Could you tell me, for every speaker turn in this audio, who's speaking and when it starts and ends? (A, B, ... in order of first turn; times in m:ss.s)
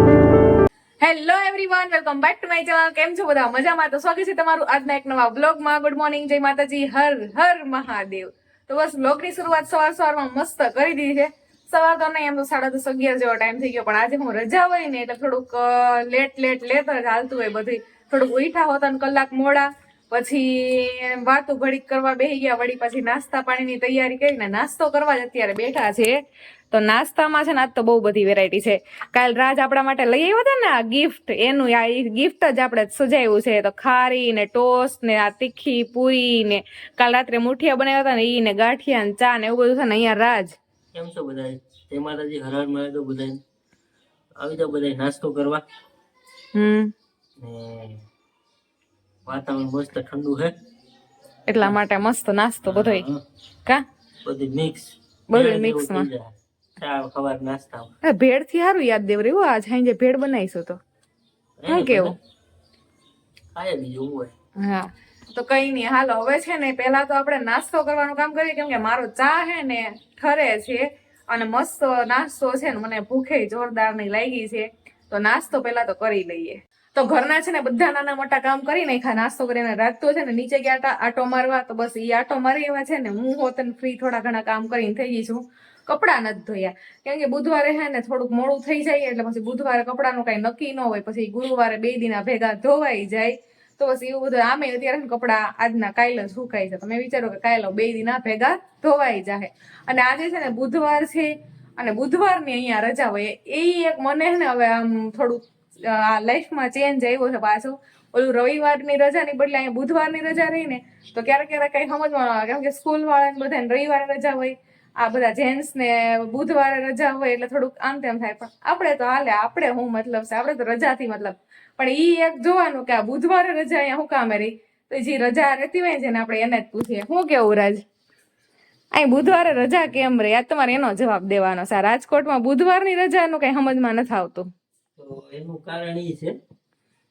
0:01.0-0:26.2 A
0:26.7-0:40.6 A
0:40.9-0:43.4 B
0:44.4-0:45.6 B
0:46.5-0:46.9 A
0:47.4-0:48.0 B
0:49.2-0:50.5 B
0:51.5-0:53.0 A
0:52.6-0:53.2 B
0:54.2-0:57.9 B
0:55.3-0:56.1 A
0:58.0-1:00.8 A
1:01.6-1:02.2 B
1:01.7-1:02.1 A
1:03.5-1:04.3 B
1:04.6-2:07.8 A
2:08.9-2:14.5 A
2:15.0-2:16.3 B